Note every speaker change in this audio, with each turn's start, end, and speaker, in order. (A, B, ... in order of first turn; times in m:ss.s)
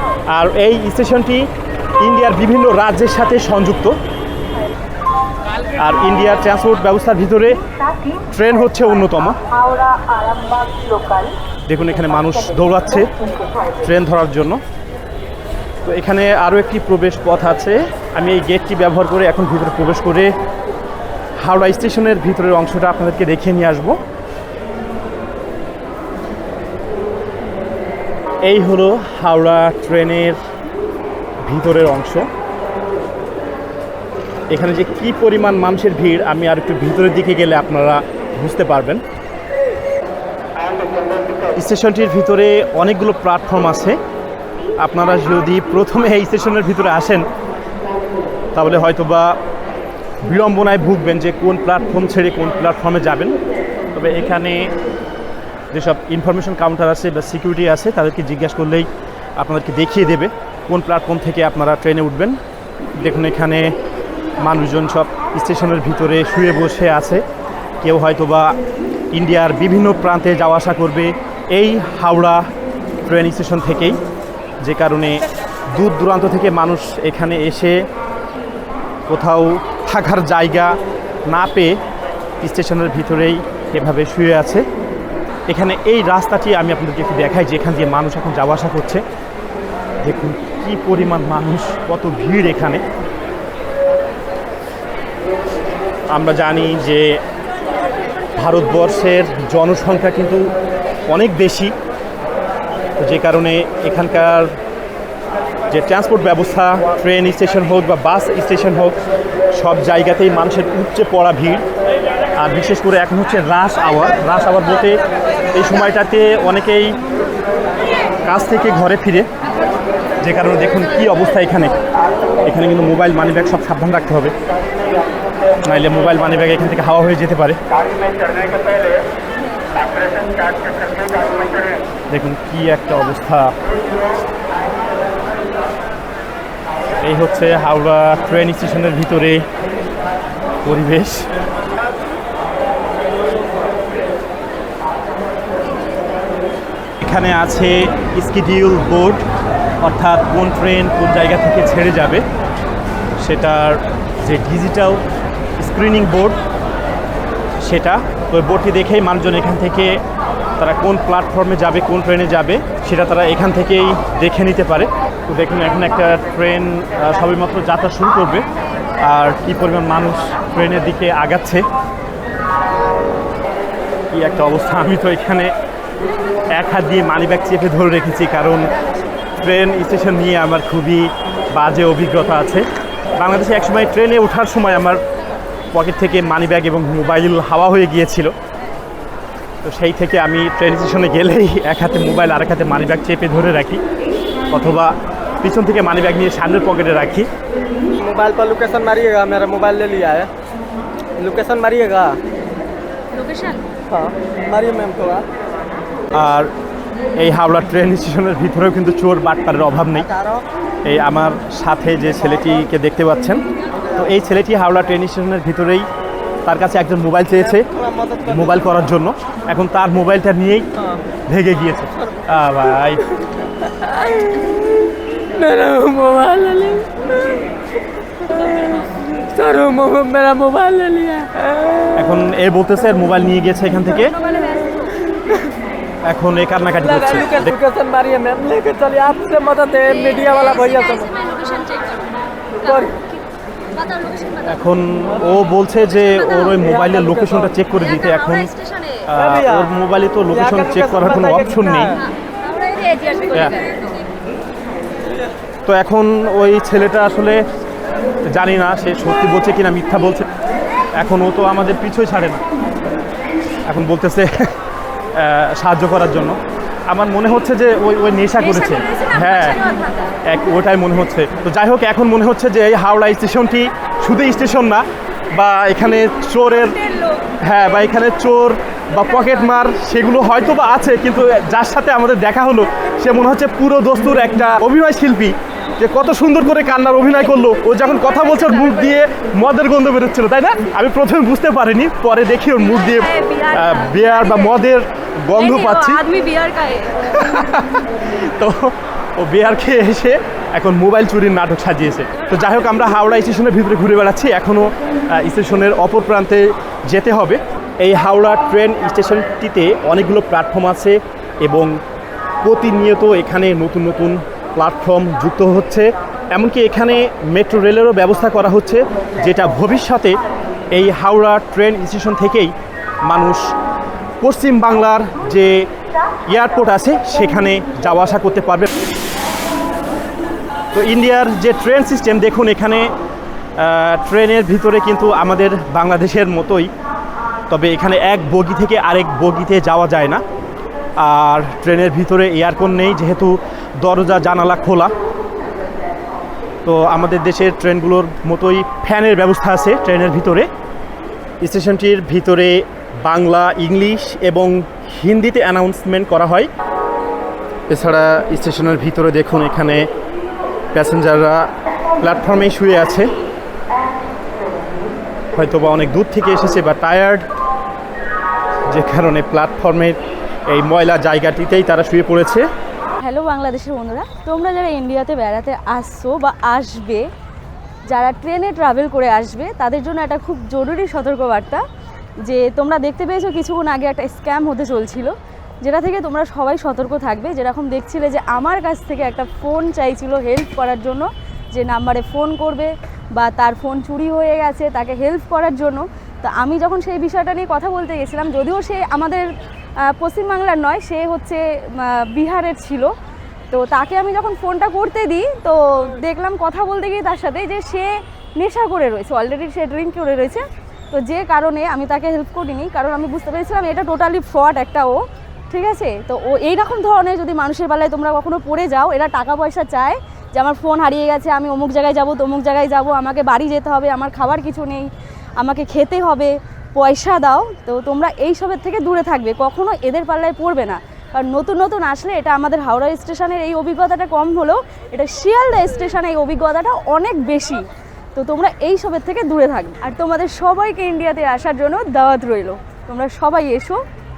0:00.3-0:01.5 A
0:02.0-0:04.0 A
0:05.8-0:07.6 A
0:08.2-0:09.4 A
0:11.7-0:13.1 A
0:13.8-0:14.6 A
0:15.8-0:20.3 A
0:21.4-0:24.0 A
0:28.4-0:30.4 A
0:31.4-0:32.3 A
0:34.5-0:39.0 A
0:41.6-0:44.0 A
0:44.8-0:47.3 A
0:48.5-0:49.4 A
0:50.2-0:53.4 A
0:53.9-0:54.7 A
0:55.7-1:02.4 A
1:03.0-1:03.7 A
1:04.4-1:07.2 A
1:07.8-1:08.6 A
1:09.1-1:12.5 A
1:13.0-1:14.0 A
1:14.6-1:17.8 A
1:19.1-1:21.8 A
1:22.4-1:24.6 A
1:25.5-1:29.0 A
1:30.0-1:32.8 A
1:36.1-1:37.2 A
1:38.4-1:40.5 A
1:41.1-1:41.7 A
1:43.0-1:44.6 A
1:45.7-1:49.0 A
1:49.5-1:51.6 A
1:52.4-1:55.0 A
1:55.5-1:57.0 A
1:58.2-1:59.3 A
2:00.2-2:01.7 A
2:02.4-2:04.3 A
2:05.6-2:07.6 A
2:12.1-2:13.5 A
2:17.0-2:19.4 A
2:20.6-2:21.3 A
2:27.0-2:29.2 A
2:29.8-2:32.2 A
2:33.2-2:35.0 A
2:35.6-2:36.4 A
2:37.6-2:40.0 A
2:40.6-2:48.5 A
2:49.0-2:51.6 A
2:54.1-2:55.5 A
2:56.5-2:58.7 A
2:59.4-3:05.0 A
3:05.7-3:08.3 A
3:09.6-3:13.8 A
3:14.5-3:17.3 A
3:18.0-3:20.3 B
3:21.2-3:22.2 B
3:23.1-3:23.6 C
3:23.9-3:25.2 B
3:26.1-3:26.5 A
3:27.2-3:30.1 A
3:30.1-3:30.4 B
3:30.8-3:33.4 A
3:33.9-3:35.9 A
3:36.4-3:37.7 A
3:37.5-3:38.6 B
3:38.2-3:40.7 A
3:41.3-3:43.0 A
3:43.6-3:47.5 D
3:48.1-3:51.9 D
3:51.9-3:54.1 A
3:54.2-3:54.8 C
3:56.0-3:57.5 A
3:57.2-4:01.2 B
4:00.1-4:03.0 C
4:02.6-4:03.0 B
4:03.7-4:04.5 C
4:04.4-4:12.0 A
4:06.0-4:06.5 C
4:06.6-4:07.5 B
4:08.0-4:09.0 C
4:09.1-4:09.7 B
4:10.3-4:12.0 B
4:12.1-4:14.1 C
4:13.3-4:13.6 A
4:15.7-4:17.4 A
4:18.3-4:20.3 A
4:20.9-4:22.4 A
4:23.6-4:24.5 A
4:25.1-4:29.6 A
4:28.5-4:30.1 C
4:30.2-4:36.8 A
4:37.4-4:56.0 A
4:48.1-4:48.6 C
4:52.6-4:54.6 C
4:55.3-4:57.1 C
4:57.0-5:11.8 A
5:12.4-5:20.2 A
5:20.7-5:22.5 A
5:23.0-5:23.5 A
5:24.2-5:25.7 A
5:26.3-5:28.7 A
5:30.7-5:32.9 A
5:33.6-5:36.7 A
5:37.5-5:40.2 A
5:41.0-5:44.9 A
5:46.6-5:50.5 A
5:51.4-5:56.5 A
5:57.7-5:59.9 A
6:00.7-6:01.5 A
6:02.0-6:03.1 A
6:05.3-6:07.3 A
6:08.7-6:12.5 A
6:13.0-6:17.1 C
6:17.9-6:21.6 C
6:22.2-6:42.9 C
6:43.5-7:04.9 C
7:05.4-7:23.8 C